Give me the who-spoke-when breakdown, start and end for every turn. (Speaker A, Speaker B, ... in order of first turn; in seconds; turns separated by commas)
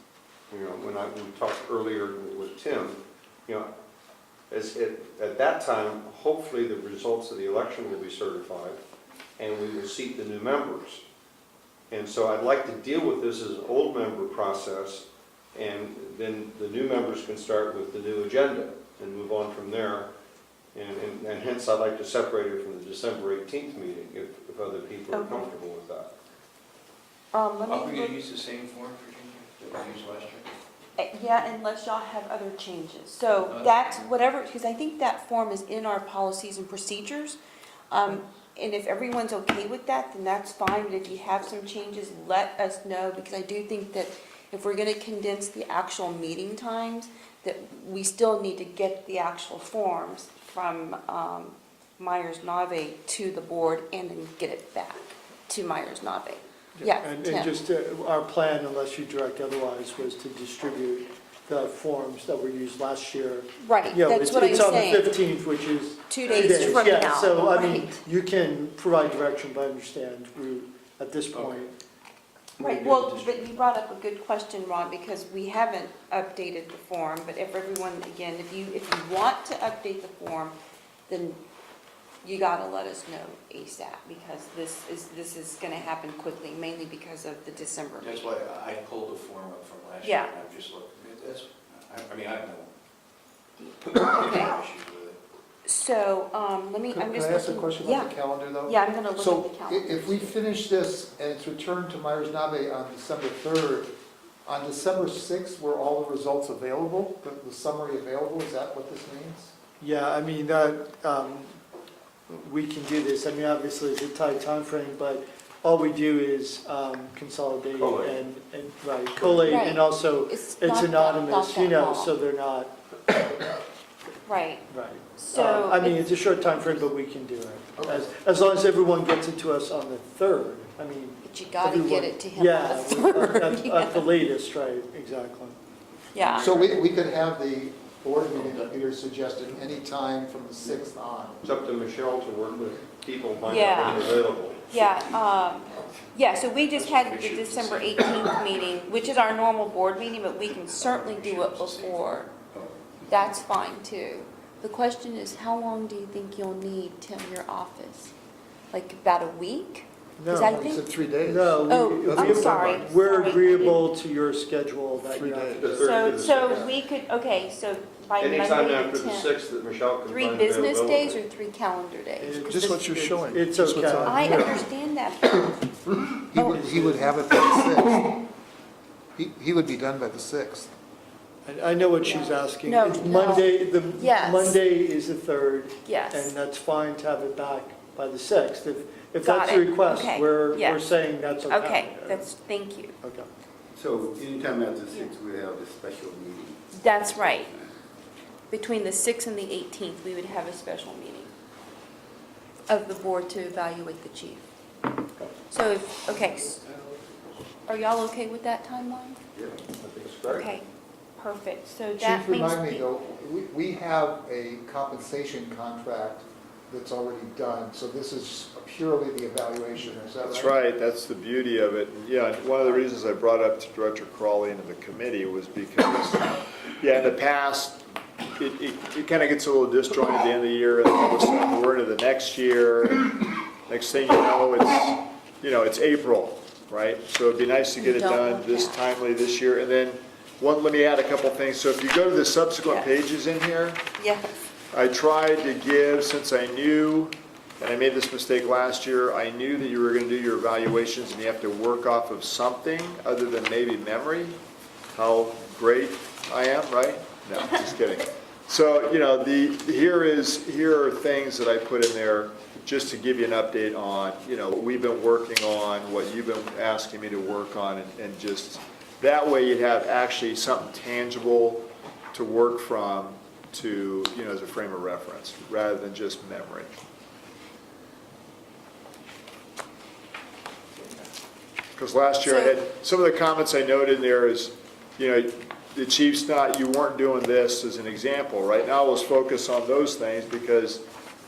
Speaker A: 0.5-3.7, Speaker A: 4.5-8.8, Speaker A: 9.4-11.0, Speaker A: 11.9-20.1, Speaker A: 20.7-26.1, Speaker B: 25.1-25.5, Speaker B: 27.3-28.2, Speaker C: 27.7-30.5, Speaker B: 31.0-37.4, Speaker C: 33.4-33.8, Speaker B: 37.9-57.5, Speaker D: 56.8-71.7, Speaker B: 63.6-65.2, Speaker B: 66.1-68.0, Speaker B: 72.6-80.5, Speaker B: 81.1-81.4, Speaker B: 82.2-88.3, Speaker C: 88.0-92.7, Speaker B: 90.0-90.3, Speaker B: 93.6-94.6, Speaker C: 94.2-95.2, Speaker B: 95.6-100.4, Speaker E: 96.9-103.9, Speaker E: 104.5-109.5, Speaker D: 109.8-111.6, Speaker D: 112.3-122.7, Speaker A: 117.8-118.2, Speaker B: 119.4-122.1, Speaker B: 124.2-126.9, Speaker D: 124.7-135.6, Speaker E: 127.8-128.0, Speaker B: 131.2-134.2, Speaker B: 136.1-136.8, Speaker E: 136.4-141.4, Speaker A: 141.4-144.6, Speaker B: 143.5-152.3, Speaker C: 146.7-148.0, Speaker C: 150.8-152.1, Speaker B: 153.1-158.1, Speaker B: 158.7-160.9, Speaker D: 160.2-160.6, Speaker E: 160.3-162.8, Speaker D: 161.2-165.7, Speaker B: 161.7-163.9, Speaker E: 165.1-166.7, Speaker A: 165.6-166.7, Speaker B: 165.8-169.3, Speaker A: 168.2-171.2, Speaker B: 170.1-172.7, Speaker D: 172.2-174.6, Speaker E: 172.5-174.6, Speaker B: 174.0-175.7, Speaker E: 176.3-178.2, Speaker B: 176.3-176.6, Speaker D: 176.4-177.2, Speaker E: 179.1-180.7, Speaker D: 181.4-192.3, Speaker B: 182.0-184.6, Speaker B: 185.8-186.3, Speaker B: 189.2-192.9, Speaker D: 193.0-193.3, Speaker F: 193.7-197.5, Speaker B: 196.7-197.5, Speaker B: 198.5-201.3, Speaker B: 202.7-204.4, Speaker B: 205.5-206.6, Speaker B: 207.7-209.2, Speaker A: 209.8-210.6, Speaker B: 210.3-210.6, Speaker B: 211.2-212.8, Speaker E: 212.0-220.5, Speaker G: 220.2-227.8, Speaker G: 228.4-233.1, Speaker G: 233.7-243.8, Speaker B: 237.8-238.8, Speaker B: 244.0-244.2, Speaker G: 244.7-254.4, Speaker G: 254.9-276.7, Speaker G: 281.8-290.8, Speaker B: 282.2-282.6